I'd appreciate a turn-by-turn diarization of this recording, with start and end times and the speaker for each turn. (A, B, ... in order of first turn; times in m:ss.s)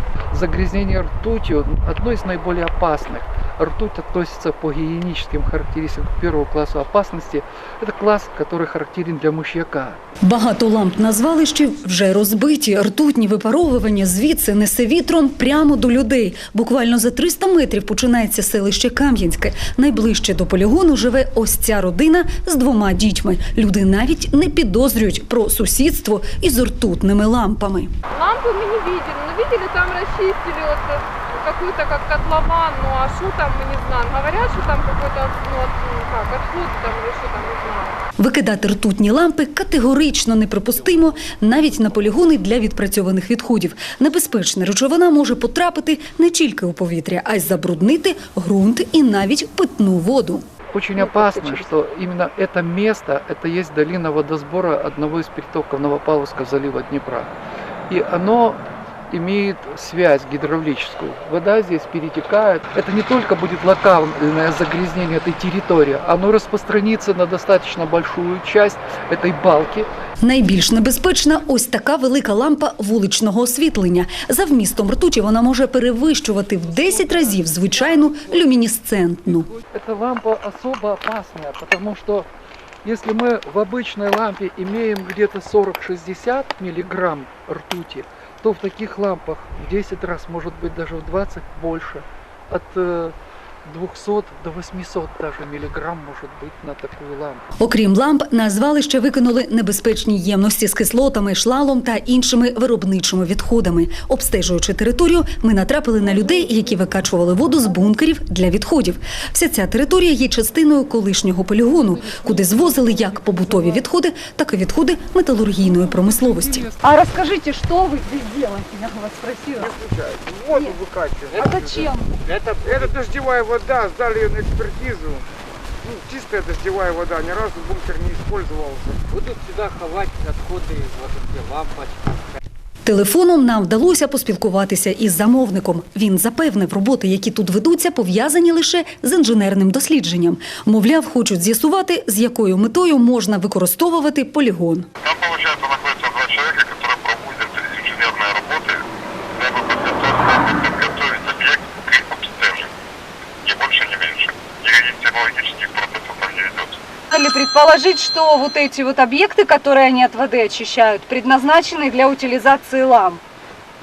0:00.3-0:10.0 A
0:10.2-0:27.9 B
0:28.1-0:38.0 C
0:38.2-0:50.4 B
0:50.7-0:57.3 A
0:57.9-1:09.9 A
1:10.2-1:19.5 B
1:16.6-1:18.5 A
1:19.3-1:22.3 A
1:22.8-1:37.5 A
1:37.6-1:59.7 B
1:51.8-1:53.8 A
1:55.5-1:56.9 A
1:59.6-2:01.3 D
2:00.5-2:00.8 B
2:01.4-2:02.2 B
2:02.3-2:02.6 E
2:03.0-2:05.2 D
2:05.9-2:09.0 D
2:09.1-2:12.1 E
2:12.8-2:24.9 B
2:25.0-2:28.8 F
2:29.4-2:32.7 F
2:33.4-2:36.8 F
2:37.1-2:43.2 B